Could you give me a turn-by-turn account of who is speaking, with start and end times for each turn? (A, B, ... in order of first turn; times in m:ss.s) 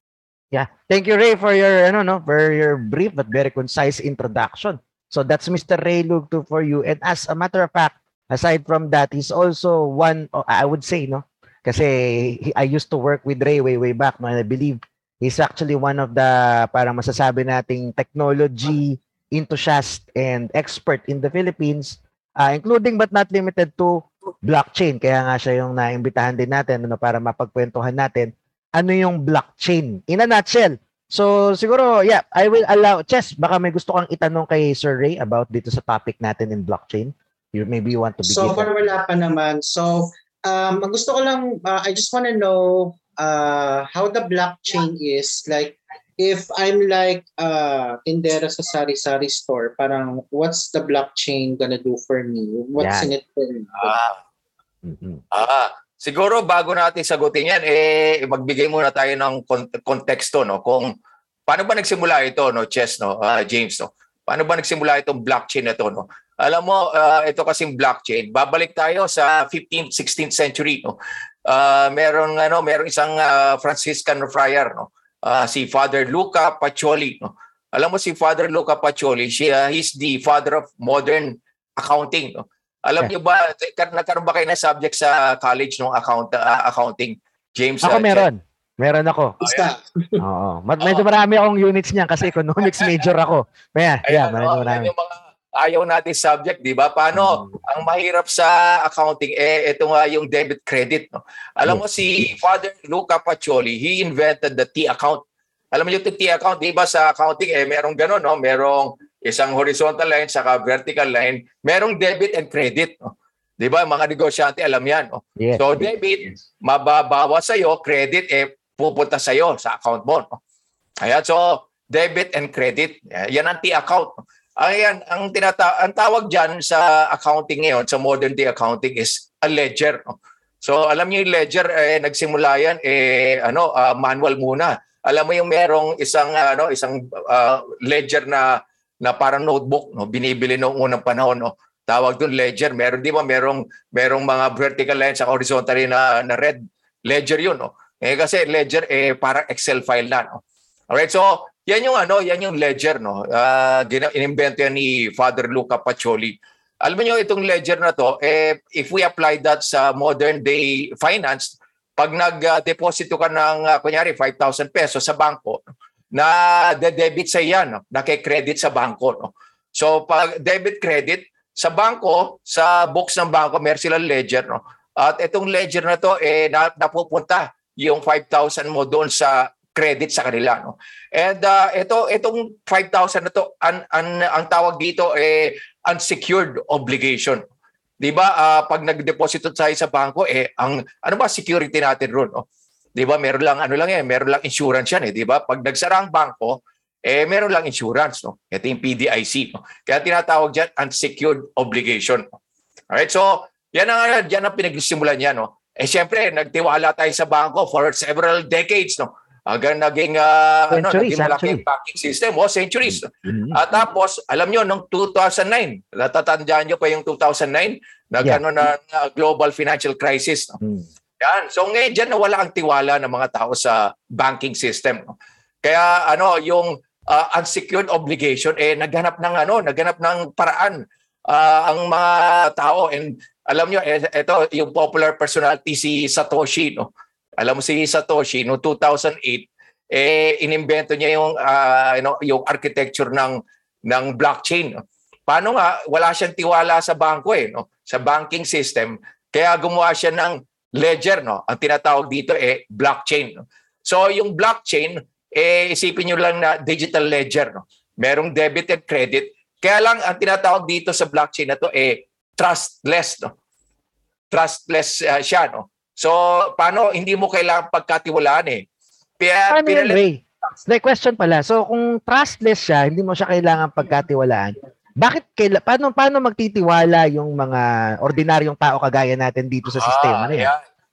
0:00.5-0:38.7 A
0:38.2-0:54.0 B
0:52.8-0:53.1 A
0:53.8-0:54.2 C
0:54.8-0:55.2 A
0:55.3-1:00.9 C
1:01.5-1:10.9 C
1:11.4-1:28.3 C
1:27.8-1:29.4 A
1:29.4-1:29.7 C
1:29.4-1:30.2 B
1:30.2-1:34.9 A
1:30.8-1:31.0 C
1:32.8-1:33.1 C
1:34.0-2:00.4 C
1:37.1-1:37.5 A
1:55.4-1:55.9 A
2:01.0-3:07.4 C
3:08.0-3:22.2 C
3:22.9-3:40.6 C
3:30.7-3:31.6 A
3:33.2-3:33.8 A
3:41.2-4:23.3 C
4:24.3-4:28.6 C
4:29.2-4:30.0 C
4:29.5-4:40.5 A
4:39.7-4:40.6 C